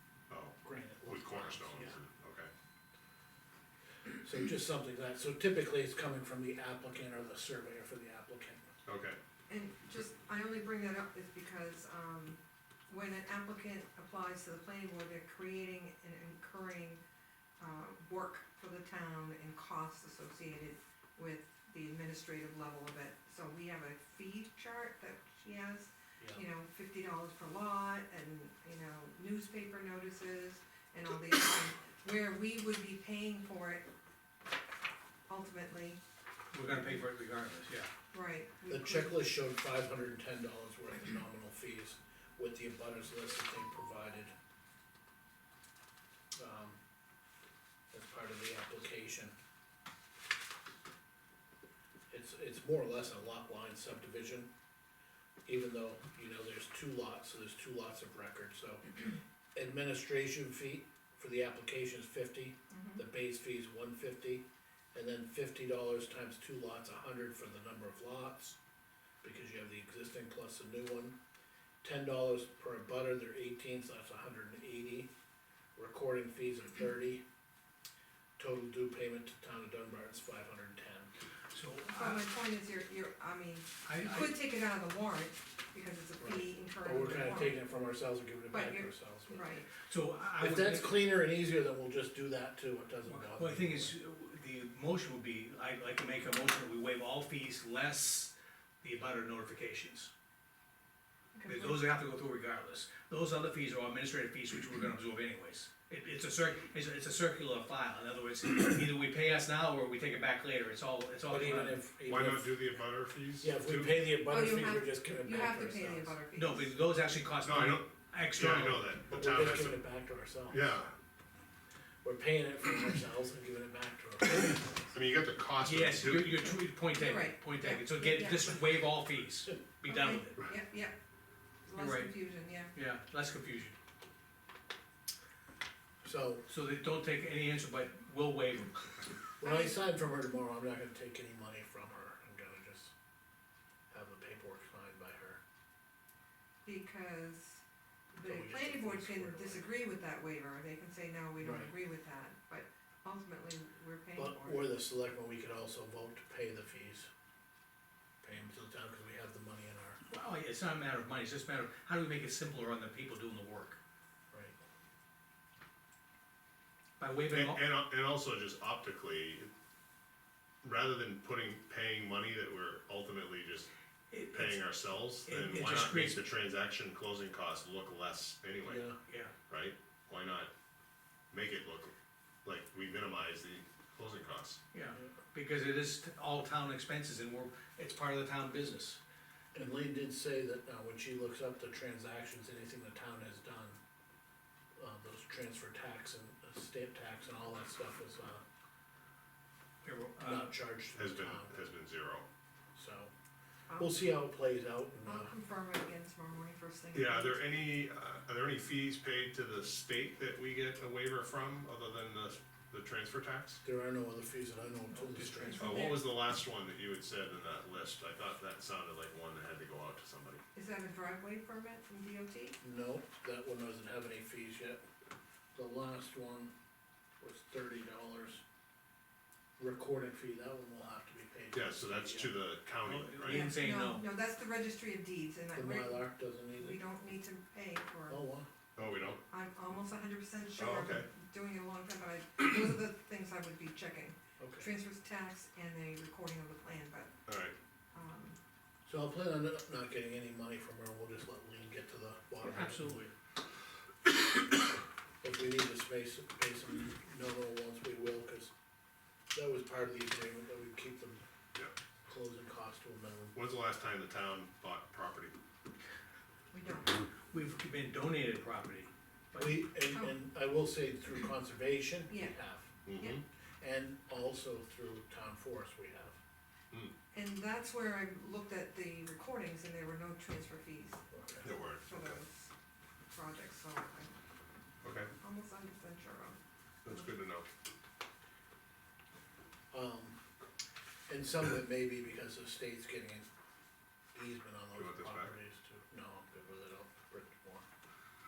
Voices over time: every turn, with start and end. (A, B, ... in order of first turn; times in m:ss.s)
0:00.3-0:02.5 A
0:00.6-0:02.0 B
0:04.2-0:08.6 B
0:08.9-0:09.2 A
0:09.5-0:17.0 C
0:17.6-0:33.8 C
0:35.3-0:36.0 C
0:36.5-0:37.9 D
0:38.1-0:39.2 C
0:38.7-0:44.3 B
0:46.4-0:46.8 B
0:47.9-0:49.3 B
0:52.1-0:54.5 B
0:55.5-1:08.6 B
1:02.7-1:03.0 C
1:09.2-1:11.2 B
1:11.8-1:15.1 B
1:15.8-1:17.2 B
1:18.4-1:21.1 B
1:21.5-1:22.2 D
1:21.9-1:27.6 C
1:23.8-1:24.4 D
1:26.2-1:29.4 B
1:28.5-1:29.7 C
1:29.8-1:31.0 D
1:30.4-1:34.0 B
1:33.0-1:40.1 D
1:41.4-1:41.8 C
1:41.5-1:51.8 D
1:51.3-1:52.9 B
1:52.0-1:54.0 A
1:53.4-1:56.2 B
1:54.3-1:56.7 C
1:56.3-1:58.8 D
1:57.4-1:59.8 A
1:59.1-2:00.7 B
2:00.5-2:00.9 A
2:02.0-2:04.6 B
2:04.9-2:06.5 A
2:05.6-2:10.4 D
2:06.9-2:08.8 C
2:09.9-2:11.0 C
2:11.7-2:12.7 C
2:11.8-2:12.2 D
2:12.7-2:13.8 D
2:16.0-2:16.4 B
2:16.5-2:19.0 D
2:19.4-2:22.9 B
2:19.4-2:19.8 C
2:23.9-2:25.4 B
2:26.6-2:27.6 C
2:28.2-2:34.7 C
2:28.2-2:29.7 B
2:31.4-2:31.7 B
2:34.2-2:37.1 B
2:38.2-2:40.0 B
2:40.1-2:43.8 D
2:44.3-2:44.6 B
2:47.0-2:47.6 D
2:47.3-2:49.5 A
2:50.6-2:53.7 A
2:54.1-2:54.6 D
2:54.3-2:58.8 A
2:55.3-2:56.2 D
2:58.7-2:59.0 B
2:59.1-2:59.3 D
2:59.5-3:00.5 A
3:01.3-3:01.9 A
3:02.4-3:04.6 A
3:04.7-3:09.0 D
3:09.6-3:13.8 B
3:14.8-3:18.4 B
3:19.8-3:20.6 D
3:20.2-3:21.6 B
3:21.0-3:22.3 A
3:22.8-3:23.1 B
3:23.8-3:25.3 B
3:25.0-3:27.4 C
3:26.9-3:33.6 A
3:33.6-3:35.8 B
3:34.9-3:35.8 D
3:35.5-3:36.1 C
3:35.6-3:40.4 A
3:40.6-3:42.6 C
3:42.6-3:44.8 B
3:45.6-3:46.5 B
3:47.2-3:48.4 B
3:49.6-3:52.3 B
3:51.5-3:53.5 A
3:52.8-3:54.1 D
3:53.3-3:58.2 C
3:55.6-3:56.8 B
3:58.1-3:58.5 B
3:58.8-3:59.2 A
3:59.3-4:07.1 C
4:00.6-4:01.1 A
4:04.4-4:04.7 B
4:07.3-4:07.6 A
4:07.9-4:08.4 C
4:08.9-4:13.0 B
4:12.4-4:13.1 D
4:15.2-4:18.5 B
4:19.3-4:21.2 B
4:22.1-4:23.4 B
4:23.3-4:25.4 A
4:26.5-4:27.0 C
4:27.3-4:29.7 D
4:29.4-4:32.8 B
4:29.9-4:30.1 C
4:32.1-4:32.3 C
4:32.8-4:33.2 A
4:33.6-4:36.2 B
4:37.1-4:41.0 C
4:41.1-4:41.4 B
4:41.4-4:42.2 A
4:41.9-4:42.5 C
4:43.1-4:44.1 C
4:44.8-4:45.1 A
4:45.2-4:46.4 C
4:46.8-4:47.5 A
4:49.7-4:50.2 B
4:51.1-4:53.3 B
4:54.1-4:57.6 B
4:54.8-4:55.3 A